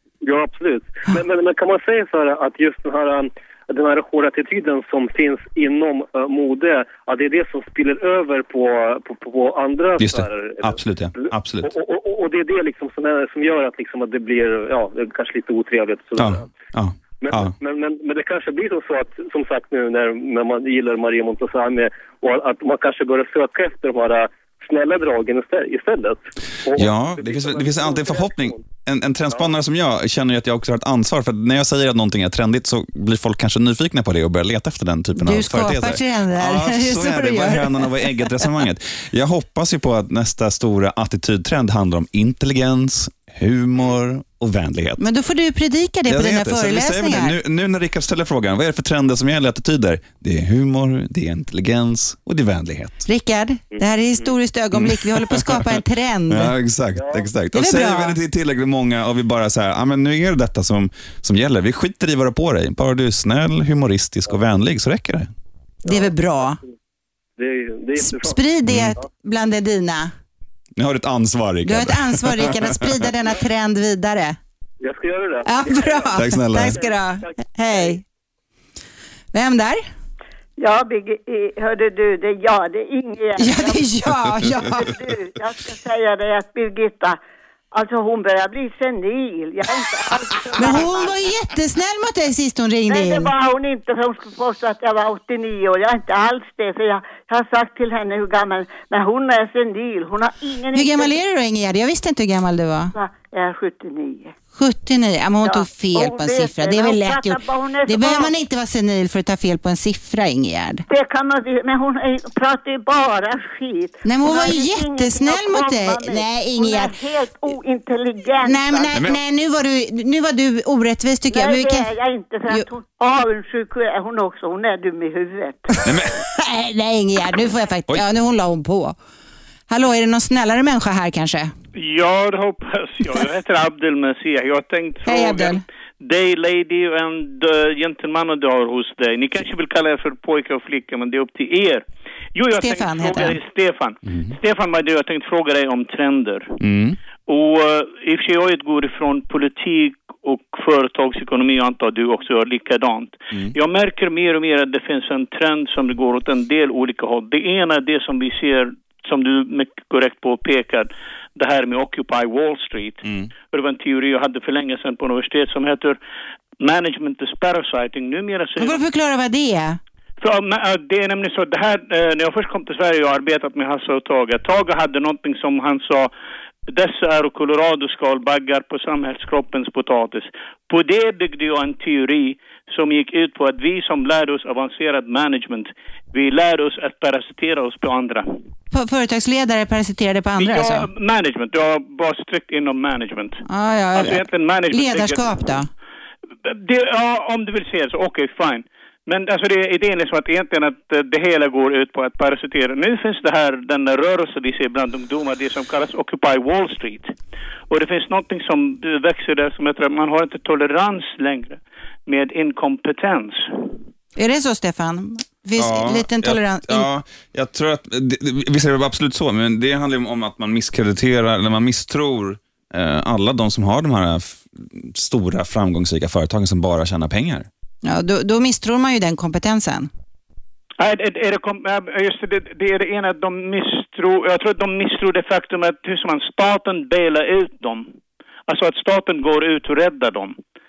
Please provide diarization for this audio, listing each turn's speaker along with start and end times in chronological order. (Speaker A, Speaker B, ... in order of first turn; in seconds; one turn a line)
Speaker A: 0.2-16.4
Speaker B: 10.0-11.7
Speaker B: 16.2-17.5
Speaker A: 17.2-28.6
Speaker B: 26.8-45.0
Speaker C: 35.2-38.3
Speaker C: 45.0-47.3
Speaker B: 46.1-53.0
Speaker C: 53.0-56.5
Speaker B: 54.7-55.6
Speaker B: 56.3-65.3
Speaker A: 57.0-57.3
Speaker C: 57.5-58.1
Speaker A: 65.8-66.5
Speaker C: 65.8-66.6
Speaker A: 67.4-68.4
Speaker C: 68.0-70.1
Speaker B: 68.7-69.0
Speaker B: 70.8-72.8
Speaker C: 71.6-74.4
Speaker A: 74.8-76.2
Speaker C: 75.4-78.0
Speaker B: 76.1-76.8
Speaker A: 77.7-78.0
Speaker C: 79.3-79.8
Speaker D: 80.6-87.2
Speaker C: 83.4-84.9
Speaker D: 87.7-91.2
Speaker C: 90.6-93.3
Speaker D: 92.9-101.1
Speaker C: 100.7-102.9
Speaker D: 102.9-104.3
Speaker C: 104.6-110.8
Speaker D: 105.4-108.4
Speaker D: 110.9-119.2
Speaker C: 114.0-117.0
Speaker C: 118.4-121.9
Speaker D: 121.3-125.7
Speaker B: 125.8-126.2
Speaker C: 126.2-128.9
Speaker C: 129.7-131.5
Speaker E: 131.8-141.8
Speaker C: 135.1-135.6
Speaker E: 142.3-146.6
Speaker C: 142.6-143.4
Speaker B: 144.1-144.3
Speaker B: 146.6-147.0
Speaker E: 147.3-166.0
Speaker B: 163.0-163.3
Speaker E: 166.6-168.8
Speaker C: 168.6-169.8
Speaker E: 170.2-176.1
Speaker E: 176.7-188.3
Speaker C: 188.7-190.9
Speaker E: 190.4-193.4
Speaker C: 193.4-195.7
Speaker E: 193.9-195.4
Speaker E: 196.4-207.1
Speaker E: 207.7-213.6
Speaker C: 214.2-216.9
Speaker B: 215.6-227.5
Speaker C: 227.8-229.9
Speaker E: 230.8-237.9
Speaker E: 238.5-240.4